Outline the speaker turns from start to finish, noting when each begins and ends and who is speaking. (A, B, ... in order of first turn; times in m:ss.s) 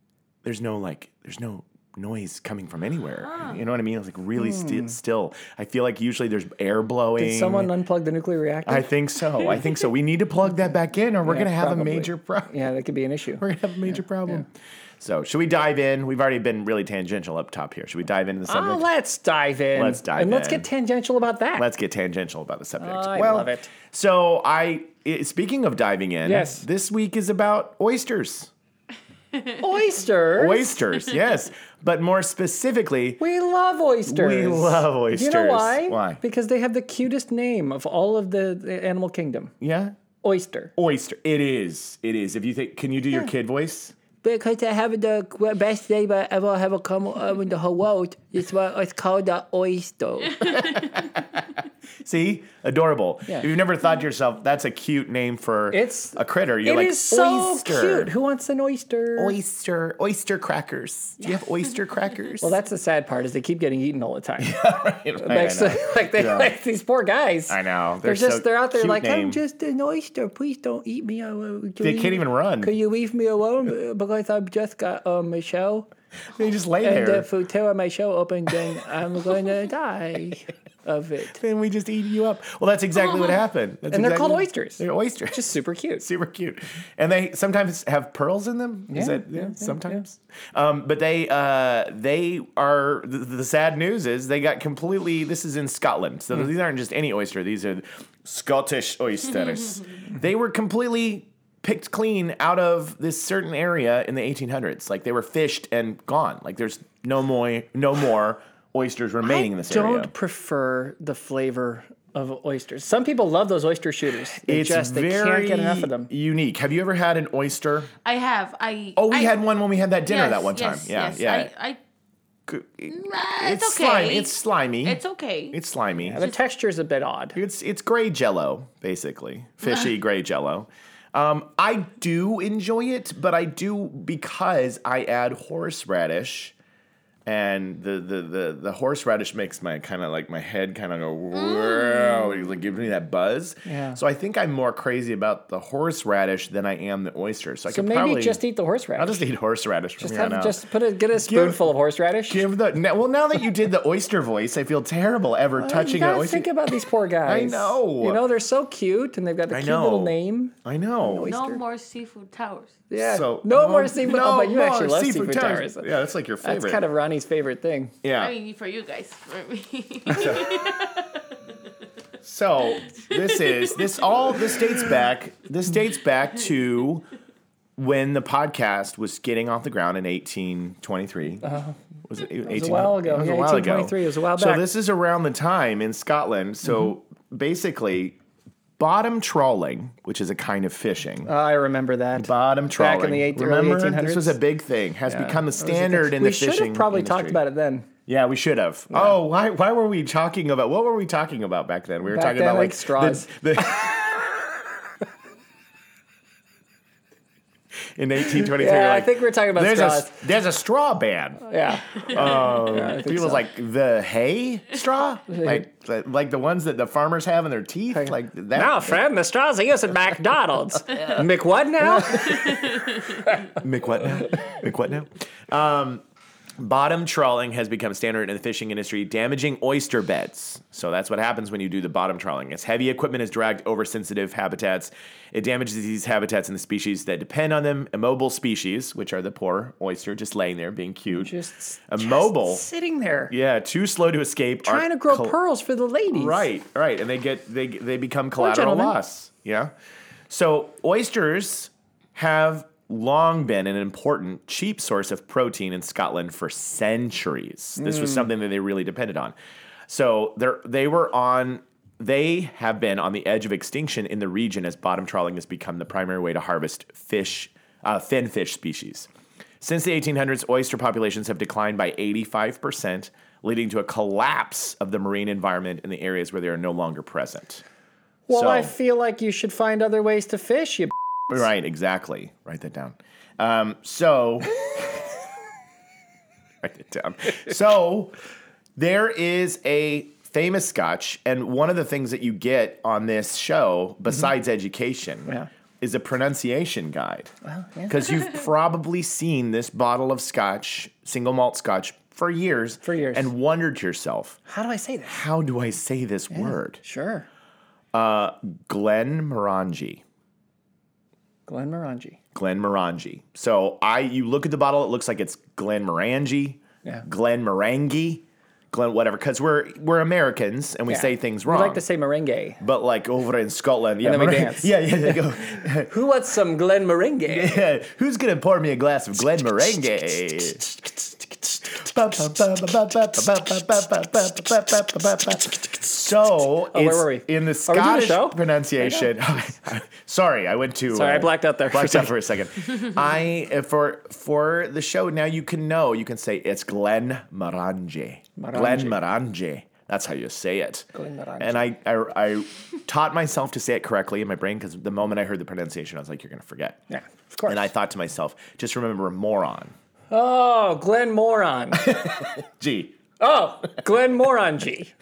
0:00.4-0:07.7 A
0:04.5-0:04.9 B
0:07.2-0:08.9 B
0:08.6-0:12.5 A
0:11.2-0:13.4 B
0:13.4-0:14.4 A
0:15.0-0:18.8 A
0:18.5-0:21.6 B
0:19.7-0:20.7 A
0:21.6-0:28.5 A
0:22.8-0:23.7 B
0:26.2-0:26.6 B
0:29.6-0:30.8 B
0:30.3-0:33.2 A
0:33.2-0:39.5 B
0:34.1-0:36.2 A
0:39.6-0:40.0 A
0:40.2-0:40.7 B
0:40.8-0:43.9 A
0:44.2-0:50.8 B
0:50.6-0:51.2 A
0:52.0-0:58.1 A
0:55.7-0:59.4 B
0:59.2-1:02.6 A
1:02.4-1:04.6 B
1:04.4-1:06.5 A
1:05.2-1:15.9 B
1:07.5-1:09.4 A
1:11.8-1:12.7 A
1:16.3-1:17.3 A
1:16.8-1:21.4 B
1:21.3-1:25.5 A
1:23.9-1:26.0 B
1:26.0-1:50.1 A
1:28.9-1:30.0 B
1:49.2-1:56.1 B
1:54.5-1:57.9 A
1:58.0-1:59.4 C
1:59.0-2:01.5 A
2:00.0-2:01.8 C
2:02.5-2:05.0 A
2:02.9-2:05.6 C
2:05.5-2:06.2 A
2:06.0-2:07.4 B
2:07.3-2:16.5 A
2:17.2-2:28.4 A
2:21.5-2:22.4 C
2:23.6-2:24.0 B
2:27.7-2:29.2 B
2:29.0-2:30.6 A
2:30.0-2:32.4 B
2:31.1-2:31.7 A
2:32.3-2:36.6 A
2:35.6-2:41.6 B
2:37.2-2:38.2 A
2:39.5-2:41.3 A
2:41.2-2:42.8 C
2:42.9-2:45.9 B
2:43.0-2:46.8 A
2:46.4-2:47.9 B
2:48.0-2:48.3 A
2:48.1-2:51.2 C
2:50.1-2:50.5 A
2:52.2-2:57.0 A
2:53.0-2:54.4 C
2:57.8-3:01.5 A
3:01.4-3:01.7 B
3:02.1-3:08.2 A
3:02.4-3:04.6 B
3:08.8-3:11.3 A
3:11.2-3:14.4 B
3:12.2-3:17.4 A
3:15.1-3:17.9 B
3:18.1-3:24.3 A
3:22.1-3:23.3 B
3:27.9-3:39.0 A
3:28.4-3:30.1 B
3:31.5-3:33.4 B
3:35.3-3:35.6 B
3:37.9-3:42.8 B
3:41.8-3:42.8 A
3:43.4-3:46.0 A
3:46.6-4:01.3 A
4:01.1-4:03.3 B
4:01.9-4:02.6 A
4:03.3-4:05.4 A
4:04.6-4:06.5 B
4:06.1-4:09.7 A
4:08.4-4:09.0 B
4:10.3-4:19.3 A
4:19.9-4:29.1 A
4:29.6-4:37.6 A
4:38.3-4:40.9 B
4:38.3-4:38.7 A
4:41.3-4:45.0 A
4:46.6-4:48.1 A
4:48.8-4:57.3 A
4:57.4-4:58.0 B
4:57.9-5:04.4 A
5:02.8-5:03.3 B
5:04.5-5:05.2 B
5:05.1-5:06.8 A
5:06.3-5:07.2 B
5:07.9-5:10.0 A
5:11.5-5:12.2 B
5:12.3-5:21.8 A
5:20.9-5:22.6 B
5:22.6-5:25.9 A
5:24.0-5:25.2 B
5:25.9-5:27.6 B
5:27.3-5:31.0 A
5:31.6-5:50.8 A
5:36.7-5:39.1 B
5:40.9-5:42.1 B
5:48.4-5:49.0 B
5:50.9-5:51.6 B
5:51.4-5:56.8 A
5:56.9-5:57.6 B
5:57.4-5:59.7 A
6:00.1-6:02.0 B
6:01.7-6:03.0 A
6:03.2-6:04.9 B